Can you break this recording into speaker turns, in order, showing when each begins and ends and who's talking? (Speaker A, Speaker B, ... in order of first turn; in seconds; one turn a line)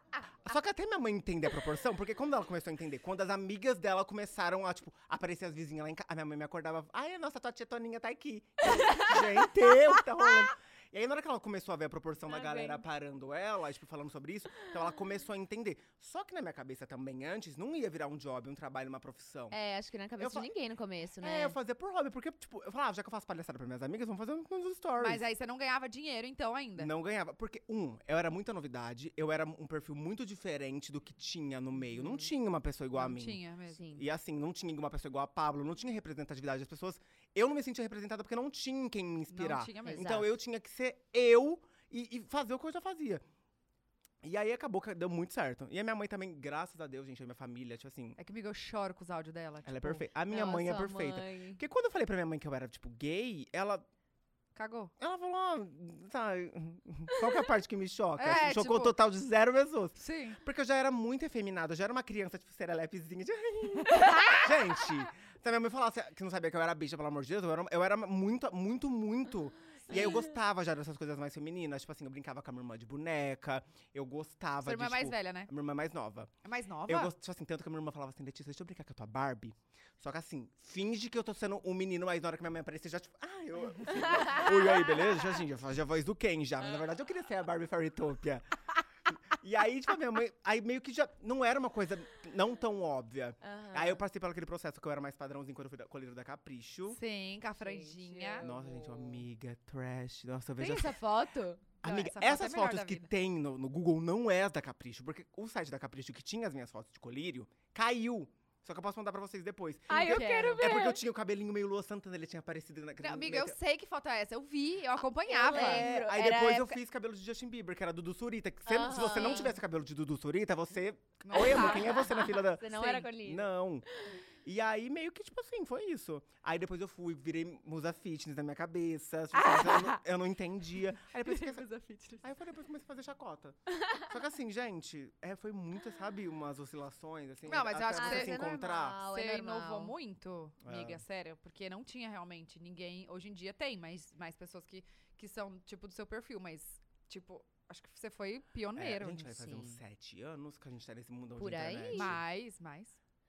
Speaker A: 0.4-19.6
Speaker B: 8.8-9.2
Speaker B: 12.3-12.8
Speaker B: 19.5-21.6
Speaker A: 20.2-20.5
Speaker A: 21.2-25.2
Speaker C: 25.0-26.9
Speaker A: 26.8-33.4
Speaker B: 31.9-32.3
Speaker C: 33.0-33.8
Speaker B: 33.7-34.0
Speaker A: 34.0-43.2
Speaker C: 39.3-40.2
Speaker B: 39.9-40.3
Speaker A: 44.2-48.2
Speaker C: 48.2-50.0
Speaker A: 49.6-53.9
Speaker B: 50.3-51.6
Speaker C: 54.5-54.9
Speaker A: 55.0-76.3
Speaker C: 58.2-59.0
Speaker C: 60.0-60.4
Speaker C: 63.9-64.4
Speaker B: 69.9-70.3
Speaker C: 69.9-70.2
Speaker C: 74.6-75.5
Speaker C: 76.4-77.1
Speaker A: 76.9-88.4
Speaker B: 84.1-84.9
Speaker A: 89.1-97.0
Speaker B: 93.4-94.0
Speaker C: 96.9-98.5
Speaker B: 97.6-99.2
Speaker A: 98.4-101.0
Speaker B: 100.6-101.7
Speaker C: 101.8-103.1
Speaker A: 101.8-113.6
Speaker B: 109.9-111.0
Speaker C: 109.9-110.9
Speaker C: 113.0-115.9
Speaker B: 115.2-116.8
Speaker A: 115.5-123.9
Speaker B: 118.7-119.6
Speaker C: 121.2-123.0
Speaker B: 121.4-124.2
Speaker A: 124.4-131.7
Speaker C: 129.3-130.0
Speaker C: 131.0-132.3
Speaker A: 132.2-139.0
Speaker B: 133.7-134.1
Speaker C: 137.5-149.3
Speaker B: 137.9-139.9
Speaker A: 140.6-141.0
Speaker A: 148.8-152.2
Speaker B: 149.3-149.8
Speaker B: 151.4-152.2
Speaker C: 151.9-153.0